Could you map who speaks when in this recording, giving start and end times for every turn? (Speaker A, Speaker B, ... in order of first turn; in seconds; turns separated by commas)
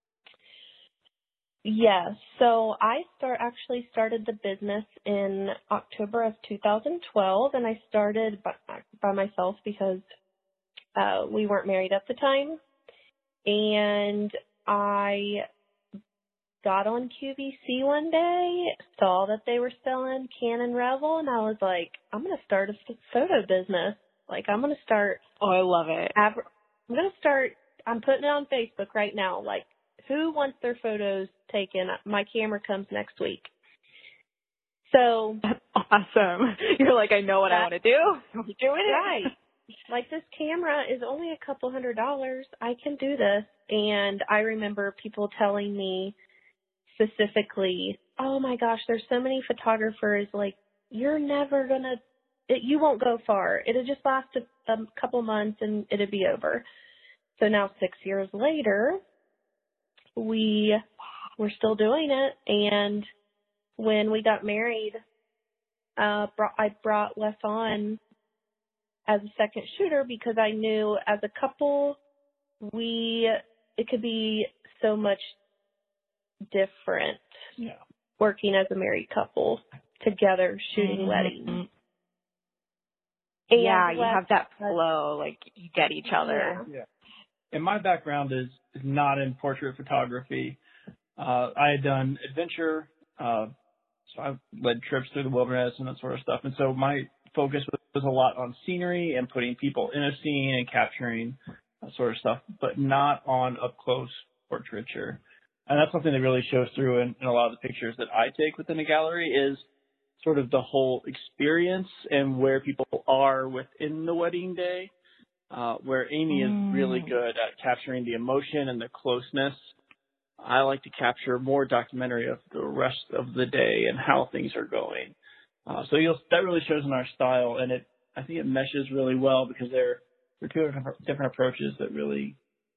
Speaker A: 1.6-10.0, Speaker A: 11.0-12.6, Speaker A: 13.4-15.4, Speaker A: 16.6-25.2, Speaker B: 25.4-26.2, Speaker A: 26.2-33.5, Speaker A: 34.9-35.4, Speaker B: 35.4-39.3, Speaker A: 38.9-39.3, Speaker A: 39.9-46.2, Speaker A: 46.9-56.7, Speaker A: 57.4-59.0, Speaker A: 60.2-60.8, Speaker A: 61.4-63.1, Speaker A: 63.8-65.0, Speaker A: 66.0-68.0, Speaker A: 69.1-72.0, Speaker A: 72.6-75.4, Speaker A: 76.5-77.3, Speaker A: 78.2-81.6, Speaker B: 80.8-81.7, Speaker B: 83.5-86.7, Speaker A: 83.5-84.8, Speaker A: 86.2-86.7, Speaker C: 87.5-90.6, Speaker C: 91.2-93.5, Speaker C: 94.1-109.7, Speaker C: 110.2-114.9, Speaker C: 115.5-119.7, Speaker B: 116.3-117.2, Speaker C: 120.4-132.4